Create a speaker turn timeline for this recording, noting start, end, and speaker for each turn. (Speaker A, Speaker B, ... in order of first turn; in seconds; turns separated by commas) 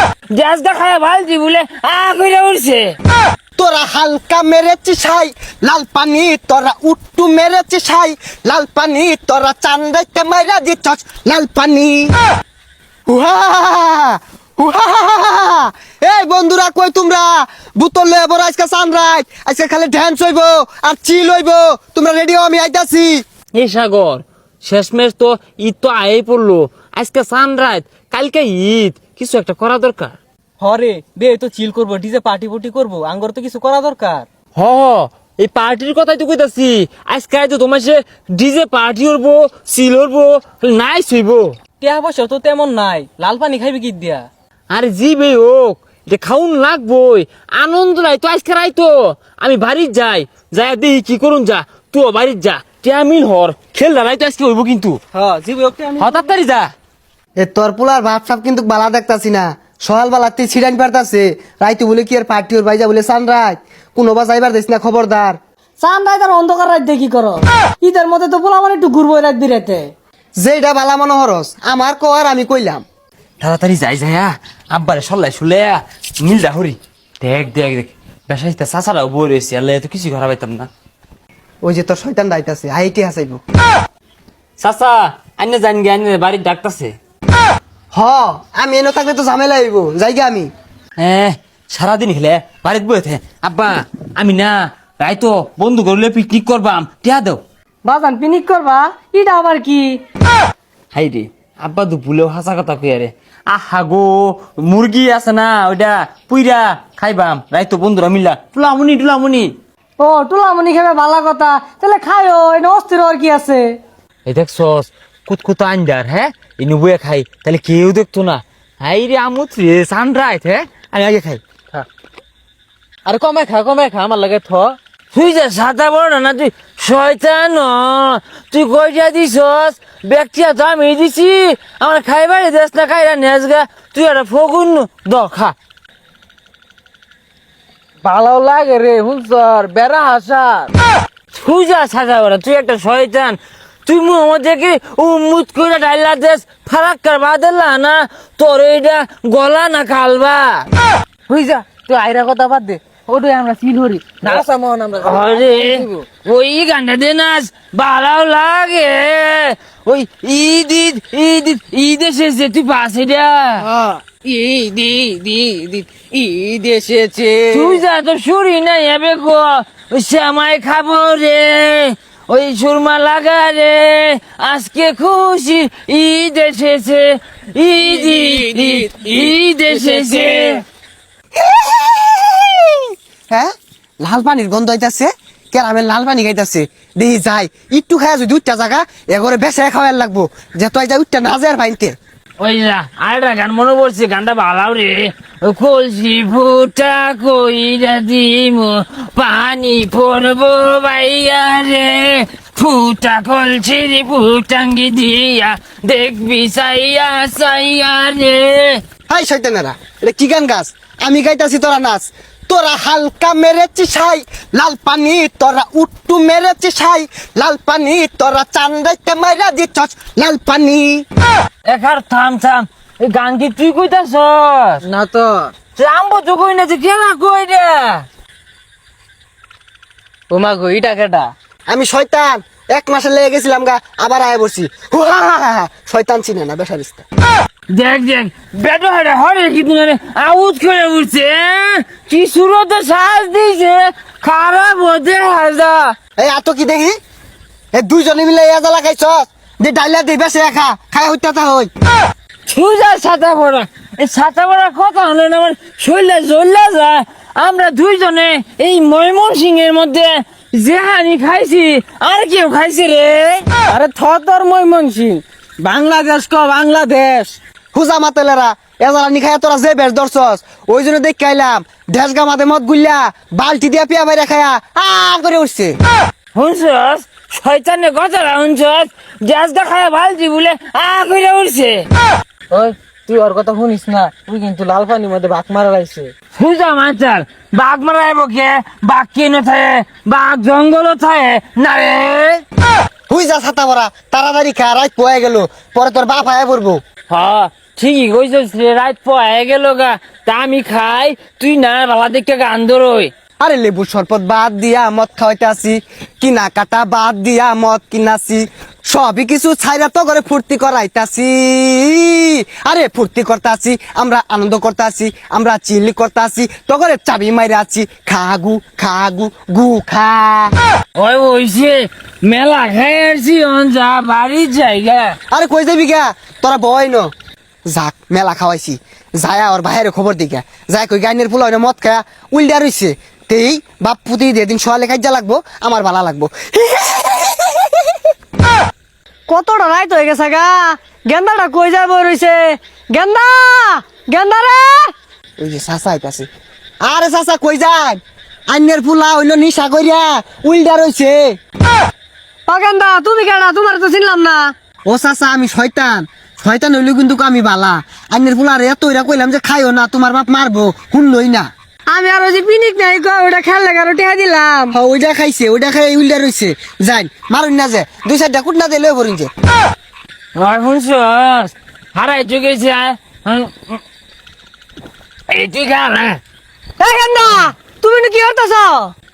Speaker A: 0.3-3.0, Speaker B: 3.6-12.1, Speaker B: 13.1-23.2, Speaker A: 23.5-30.2, Speaker C: 30.6-34.3, Speaker A: 34.5-41.5, Speaker C: 41.8-44.3, Speaker A: 44.7-55.0, Speaker C: 55.1-56.1, Speaker A: 56.0-56.7, Speaker B: 57.4-65.4, Speaker D: 65.8-69.9, Speaker B: 70.4-72.8, Speaker A: 73.4-80.7, Speaker B: 81.6-83.4, Speaker A: 84.6-86.9, Speaker B: 87.9-90.5, Speaker A: 91.0-97.4, Speaker D: 97.8-100.0, Speaker A: 100.9-109.5, Speaker D: 110.0-113.7, Speaker A: 114.2-121.4, Speaker C: 123.0-124.8, Speaker A: 125.1-135.5, Speaker C: 138.0-140.7, Speaker A: 141.3-150.7, Speaker C: 151.3-156.0, Speaker A: 155.0-163.7, Speaker C: 163.6-167.8, Speaker A: 167.5-180.6, Speaker C: 178.0-180.6, Speaker B: 181.3-192.0, Speaker A: 192.4-208.8, Speaker B: 209.1-221.0, Speaker A: 221.7-224.8, Speaker C: 224.8-225.5, Speaker A: 225.8-228.1, Speaker C: 230.3-231.3, Speaker B: 231.7-237.0, Speaker A: 237.7-245.9, Speaker B: 246.2-246.9, Speaker B: 247.7-251.7, Speaker A: 252.5-263.4, Speaker C: 263.7-267.4, Speaker B: 267.7-275.8, Speaker A: 276.3-281.9, Speaker C: 282.5-286.1, Speaker A: 286.3-292.4, Speaker B: 293.1-296.8, Speaker A: 297.1-303.1, Speaker B: 303.4-320.5, Speaker A: 320.9-325.2, Speaker B: 325.3-327.1, Speaker B: 327.7-338.0, Speaker D: 339.3-344.9, Speaker B: 345.4-346.3, Speaker B: 346.8-351.3, Speaker D: 352.5-354.5, Speaker B: 354.9-361.5, Speaker D: 361.9-364.7, Speaker B: 364.7-369.3, Speaker A: 370.4-373.8, Speaker A: 375.3-376.2, Speaker D: 376.8-378.9